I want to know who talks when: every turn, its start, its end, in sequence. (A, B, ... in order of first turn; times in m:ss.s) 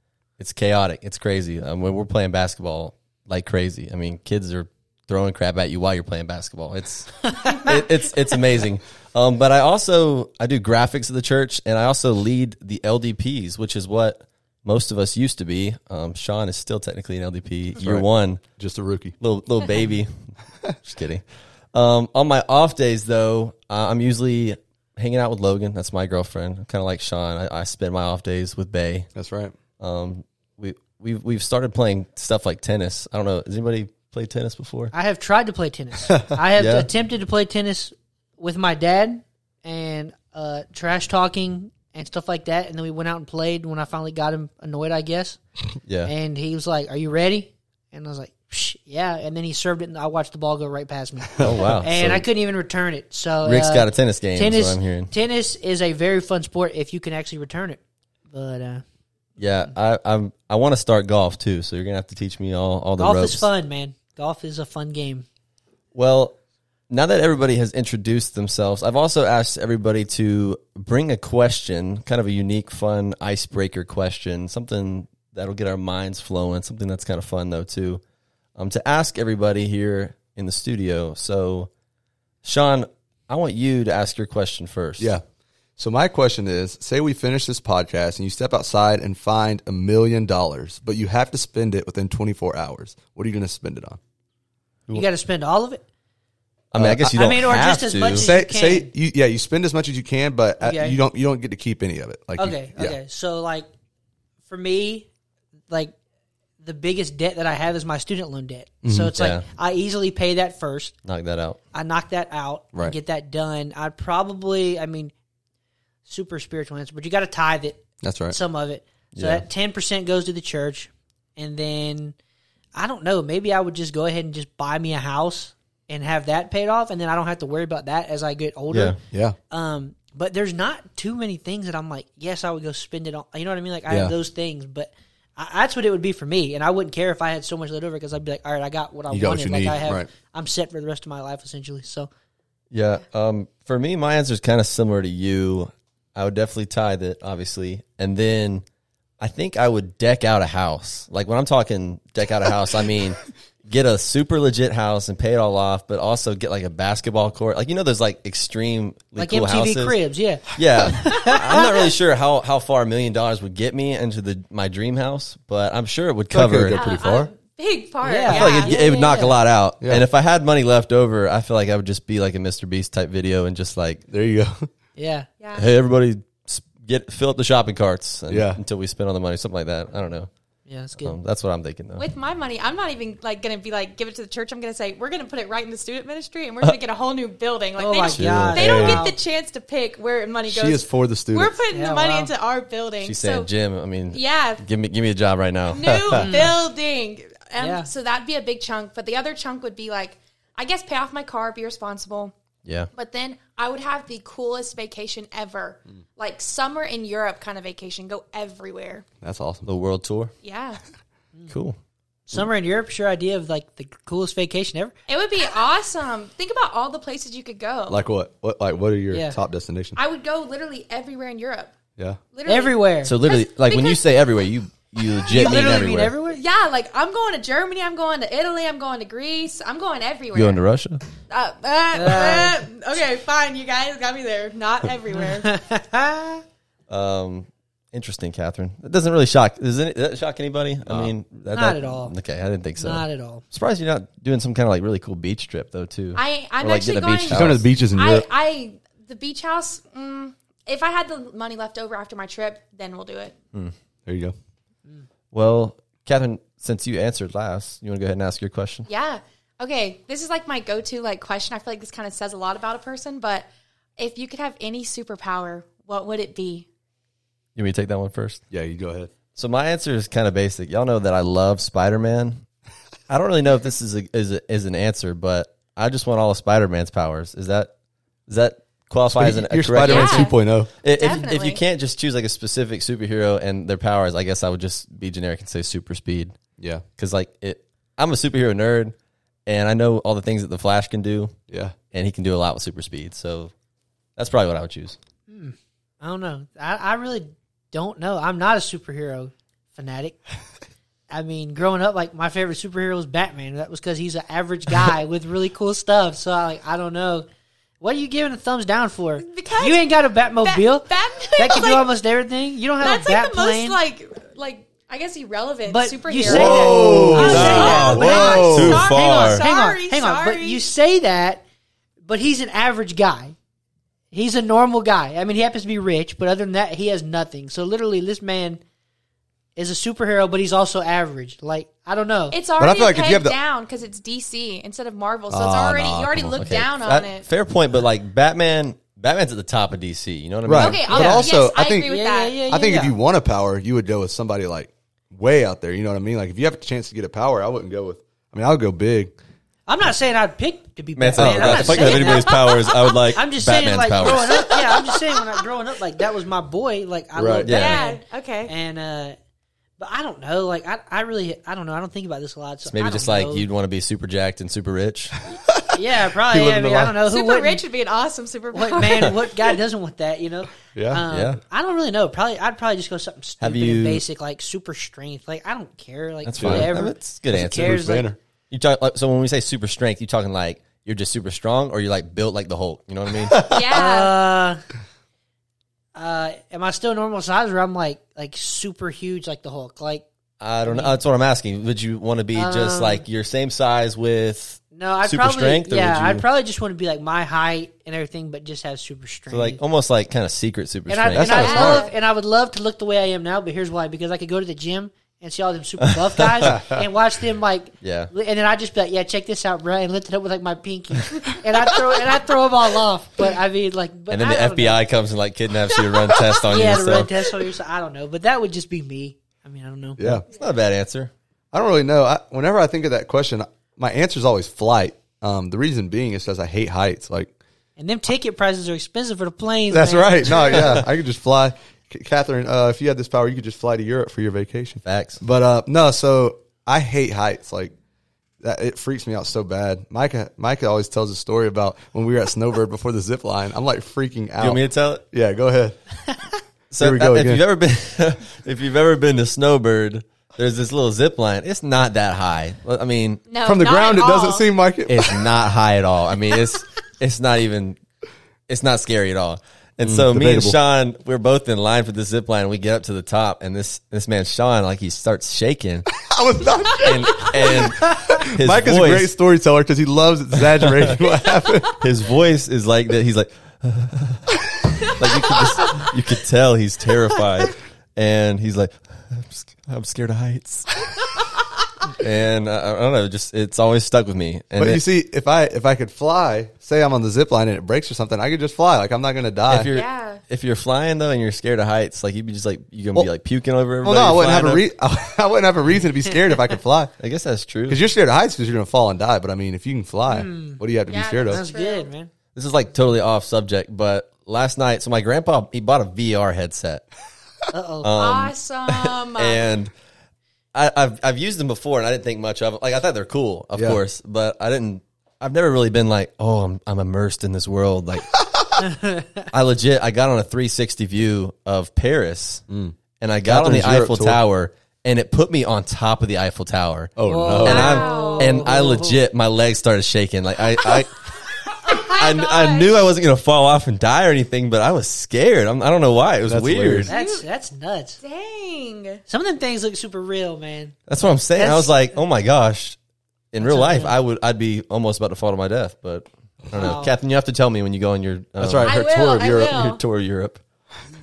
0:00.4-0:18.4 A
0:17.8-0:19.2 B
0:19.2-0:29.1 A
0:29.1-0:29.5 B
0:29.8-0:34.9 A
0:34.9-0:45.4 C
0:36.5-0:36.9 A
0:45.8-0:46.1 A
0:46.0-0:58.8 C
0:51.4-0:52.2 A
0:53.4-0:55.1 A
0:59.4-1:03.5 A
1:03.0-1:05.2 C
1:05.9-1:06.4 A
1:06.9-1:18.0 A
1:18.6-1:21.7 A
1:22.4-1:25.1 A
1:25.8-1:34.0 B
1:34.9-1:35.8 C
1:36.7-1:38.3 A
1:36.8-1:37.2 B
1:37.1-1:38.9 C
1:38.1-1:43.0 B
1:40.6-1:41.0 C
1:42.4-1:43.7 C
1:44.5-1:45.1 C
1:46.6-1:51.0 C
1:48.8-1:49.1 B
1:49.1-1:49.4 A
1:51.0-1:51.6 A
1:51.7-1:55.1 C
1:56.0-2:02.1 C
1:58.0-1:58.4 B
1:59.1-1:59.4 A
2:02.7-2:09.0 C
2:08.7-2:09.0 A
2:09.1-2:09.4 B
2:09.5-2:22.1 C
2:13.9-2:14.1 B
2:19.1-2:20.1 B
2:22.7-2:28.6 A
2:29.2-2:40.0 A
2:39.2-2:41.8 C
2:40.5-2:46.8 A
2:46.3-2:47.3 B
2:46.7-2:49.3 D
2:48.0-2:48.8 C
2:48.3-2:54.0 A
2:54.1-2:54.7 B
2:55.0-2:55.3 C
2:55.4-2:55.7 D
2:55.5-3:00.3 A
2:58.3-2:58.6 B
3:00.7-3:01.2 C
3:01.0-3:02.0 A
3:02.0-3:13.5 D
3:07.8-3:09.2 C
3:08.1-3:08.6 A
3:08.2-3:09.0 B
3:10.5-3:11.6 B
3:11.7-3:12.3 C
3:13.0-3:16.3 A
3:14.1-3:14.6 D
3:15.7-3:22.3 D
3:16.1-3:16.6 C
3:17.6-3:17.9 C
3:22.6-3:22.9 A
3:22.9-3:29.0 D
3:29.2-3:29.6 B
3:29.6-3:30.3 A
3:30.4-3:30.8 D
3:31.5-3:31.8 A
3:32.3-3:34.9 C
3:35.1-3:38.0 D
3:37.9-3:40.0 B
3:39.1-3:39.4 C
3:40.0-3:41.7 D
3:42.3-3:44.0 D
3:42.5-3:43.1 C
3:43.0-3:46.1 A
3:45.2-3:50.6 D
3:45.3-3:46.4 C
3:50.3-3:51.0 A
3:51.3-3:55.5 D
3:51.9-3:52.6 C
3:55.1-3:56.4 C
3:56.9-4:07.6 A
4:00.8-4:01.1 B
4:01.5-4:02.1 C
4:02.8-4:03.4 C
4:06.1-4:13.3 D
4:07.3-4:08.2 B
4:14.0-4:14.3 B
4:15.3-4:18.9 A
4:18.9-4:26.6 D
4:27.6-4:28.4 A
4:28.5-4:29.1 B
4:29.3-4:32.4 A
4:33.1-4:37.7 A
4:38.3-4:46.4 A
4:39.1-4:40.7 B
4:39.8-4:41.6 D
4:46.6-4:46.8 B
4:47.0-4:48.9 A
4:49.4-4:51.3 A
4:51.5-4:51.7 B
4:51.9-4:53.5 A
4:54.2-4:55.0 A
4:55.3-5:00.2 C
5:01.1-5:07.3 C
5:07.8-5:13.8 C
5:09.2-5:11.9 D
5:12.8-5:20.6 D
5:15.7-5:21.4 C
5:16.2-5:18.8 B
5:16.3-5:19.4 A
5:22.0-5:23.3 C
5:24.1-5:28.6 C
5:29.6-5:32.4 C
5:32.3-5:37.3 D
5:32.6-5:33.4 B
5:35.3-5:36.5 B
5:36.4-5:40.8 A
5:40.4-5:41.9 B
5:40.5-5:42.4 D
5:40.9-5:41.2 C
5:41.8-5:42.9 C
5:42.5-5:49.1 B
5:49.7-5:52.4 C
5:51.0-5:54.5 A
5:51.2-5:51.7 B
5:51.6-5:53.0 D
5:53.1-5:59.2 C
5:54.3-5:55.4 D
5:57.1-5:57.5 B
5:57.4-5:57.8 A
5:57.5-5:58.5 D
5:59.8-6:03.4 C
6:02.6-6:05.2 A
6:05.5-6:07.0 B
6:05.7-6:07.6 C
6:07.1-6:09.5 D
6:08.5-6:18.1 C
6:10.7-6:11.0 B
6:11.1-6:11.4 A
6:13.4-6:14.0 A
6:16.2-6:17.9 A
6:16.4-6:16.7 B
6:17.4-6:18.2 B
6:18.5-6:23.4 A
6:23.3-6:23.6 B
6:23.4-6:24.1 D
6:23.7-6:24.6 C
6:25.9-6:30.0 C
6:30.4-6:36.2 A
6:30.6-6:30.9 C
6:32.3-6:33.0 C
6:34.7-6:39.6 C
6:39.3-6:41.8 A
6:40.9-6:54.8 C
6:41.1-6:41.8 B
6:41.2-6:42.0 D
6:45.8-6:46.6 A
6:46.4-6:46.8 B
6:47.8-6:48.1 A
6:54.1-6:57.1 A
6:56.4-7:00.2 C
7:00.0-7:00.2 B
7:00.1-7:01.1 A
7:01.5-7:07.3 B
7:07.8-7:10.7 C
7:09.7-7:17.7 B
7:14.8-7:15.2 A
7:18.4-7:25.8 B
7:24.4-7:25.0 A
7:26.7-7:33.2 A
7:26.8-7:27.4 B
7:33.3-7:34.5 D
7:33.4-7:35.2 B
7:34.8-7:37.8 A
7:38.5-7:45.9 A
7:39.8-7:40.6 B
7:46.0-7:51.7 B
7:46.8-7:49.1 A
7:50.6-7:50.9 A
7:51.8-8:00.8 A
8:01.9-8:04.8 A
8:04.6-8:09.7 B
8:09.5-8:14.6 A
8:09.7-8:10.2 D
8:13.8-8:16.9 B
8:17.0-8:17.8 A
8:17.7-8:21.4 B
8:20.1-8:20.6 C
8:20.9-8:21.9 D
8:21.2-8:22.1 C
8:22.3-8:26.8 A
8:27.5-8:27.9 C
8:27.8-8:29.7 A
8:27.9-8:29.5 D
8:30.5-8:38.1 A
8:33.5-8:33.8 B
8:38.6-8:39.1 C
8:39.3-8:42.4 A
8:42.5-8:44.2 B
8:43.0-8:51.0 A
8:47.0-8:47.8 B
8:47.0-8:49.0 C
8:47.4-8:48.6 D
8:51.4-8:52.9 D
8:51.9-8:56.9 A
8:56.3-8:56.9 B
8:56.9-8:58.0 C
8:56.9-8:57.3 D
8:58.0-8:59.0 D
8:59.1-9:00.8 C
9:00.9-9:02.8 A
9:01.4-9:01.7 C
9:03.3-9:10.4 A
9:03.4-9:03.9 C
9:06.5-9:06.9 C
9:08.4-9:09.5 B
9:08.6-9:09.8 D